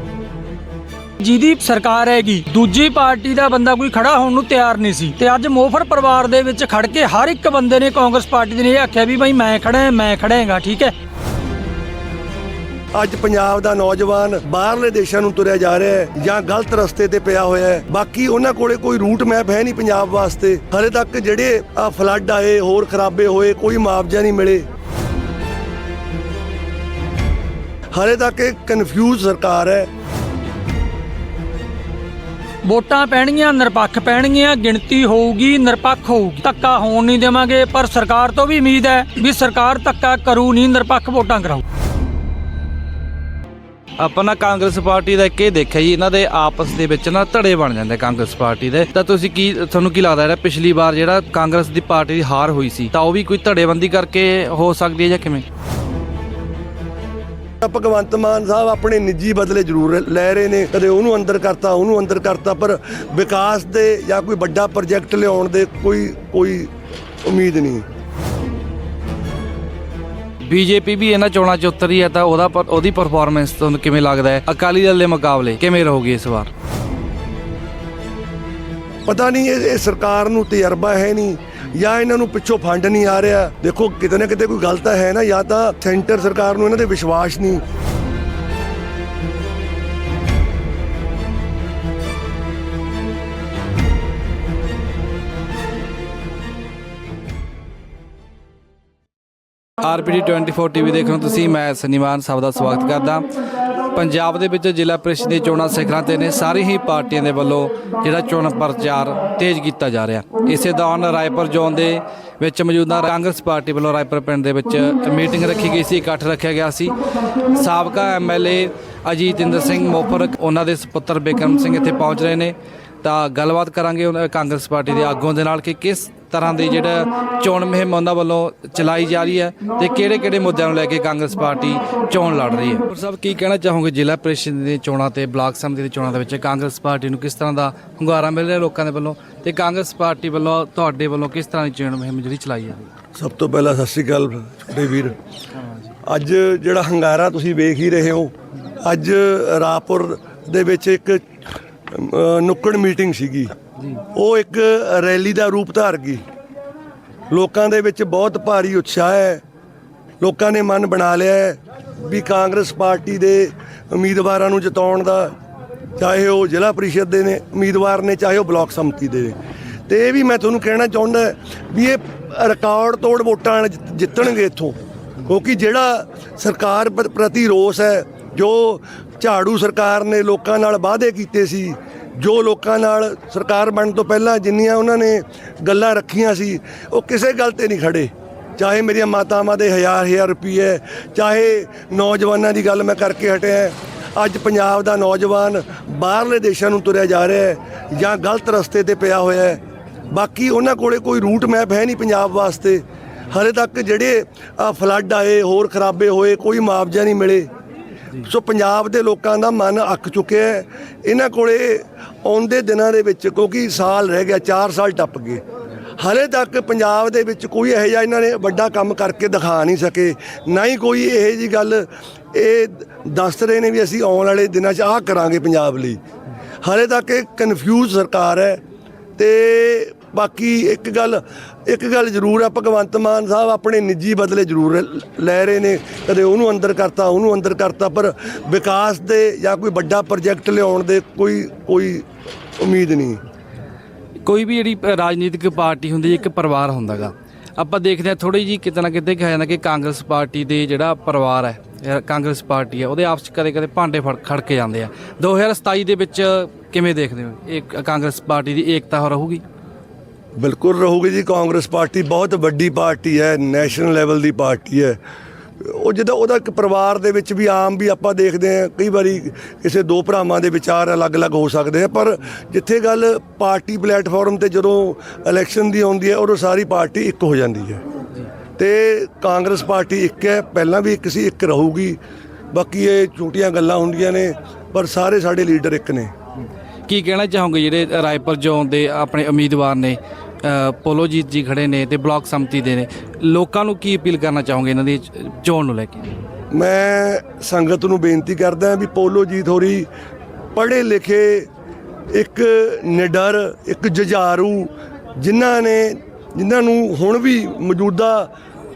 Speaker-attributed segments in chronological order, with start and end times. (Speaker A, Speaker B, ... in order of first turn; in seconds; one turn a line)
Speaker A: 1.2-10.9
Speaker B: 12.9-24.6
Speaker B: 27.9-29.9
Speaker A: 32.6-41.6
Speaker C: 44.0-55.5
Speaker B: 57.6-66.7
Speaker B: 67.2-67.8
Speaker C: 70.4-76.5
Speaker B: 79.1-87.6
Speaker C: 99.8-103.3
Speaker C: 103.9-117.0
Speaker C: 117.5-142.9
Speaker B: 143.2-145.2
Speaker C: 145.6-145.9
Speaker B: 146.1-148.3
Speaker B: 148.8-151.2
Speaker B: 151.9-153.5
Speaker B: 154.1-156.2
Speaker B: 157.3-159.4
Speaker B: 160.2-165.3
Speaker B: 166.0-169.4
Speaker B: 169.9-207.5
Speaker B: 208.2-215.4
Speaker B: 216.0-226.0
Speaker B: 226.6-228.6
Speaker B: 229.2-242.1
Speaker B: 242.6-243.2
Speaker C: 244.2-259.4
Speaker B: 260.4-265.0
Speaker B: 265.6-277.8
Speaker B: 278.6-282.0
Speaker B: 282.5-286.1
Speaker C: 286.9-296.2
Speaker B: 296.5-299.9
Speaker B: 300.6-301.5
Speaker B: 302.1-308.3